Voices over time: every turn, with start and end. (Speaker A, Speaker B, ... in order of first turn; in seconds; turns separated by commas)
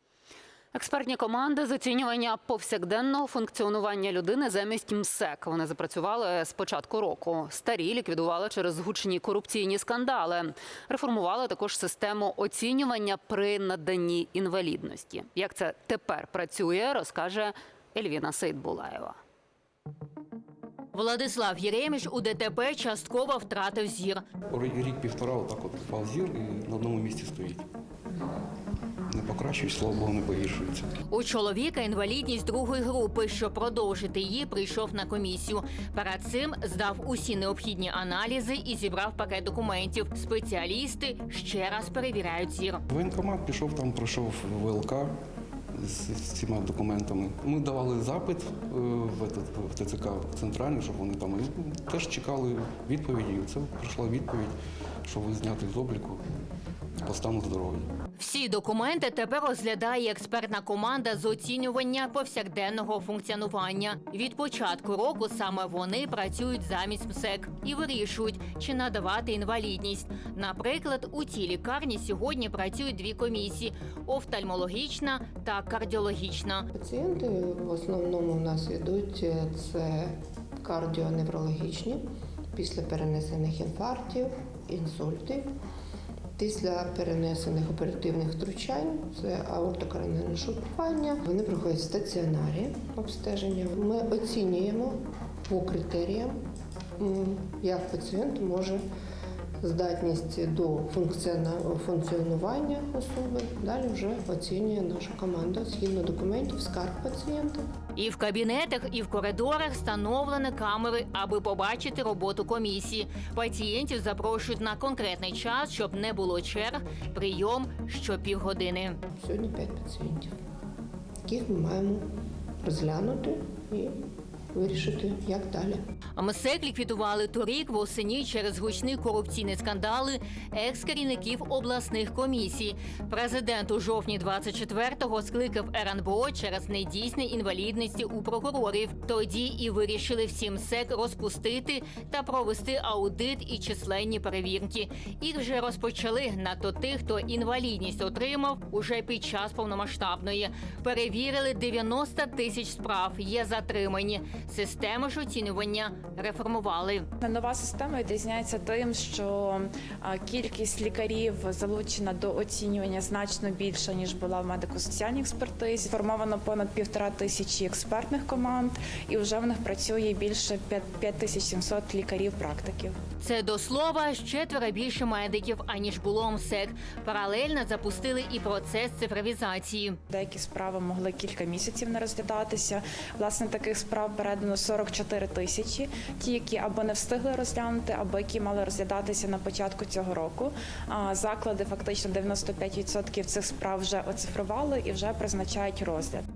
Speaker A: 0.7-19.2, Speaker B: 20.9-24.2, Speaker C: 24.5-27.7, Speaker C: 29.1-30.9, Speaker B: 31.1-42.8, Speaker C: 42.9-45.1, Speaker C: 45.8-56.2, Speaker C: 57.0-57.9, Speaker B: 58.2-76.7, Speaker D: 76.8-82.0, Speaker D: 82.5-85.5, Speaker D: 86.4-95.0, Speaker D: 95.5-96.4, Speaker D: 97.0-98.8, Speaker D: 99.6-107.6, Speaker B: 108.0-119.0, Speaker D: 119.2-120.3, Speaker D: 121.2-122.0, Speaker D: 122.6-124.0, Speaker D: 124.5-125.8, Speaker B: 126.2-157.1, Speaker E: 157.2-172.9, Speaker B: 173.2-180.0, Speaker E: 180.1-196.2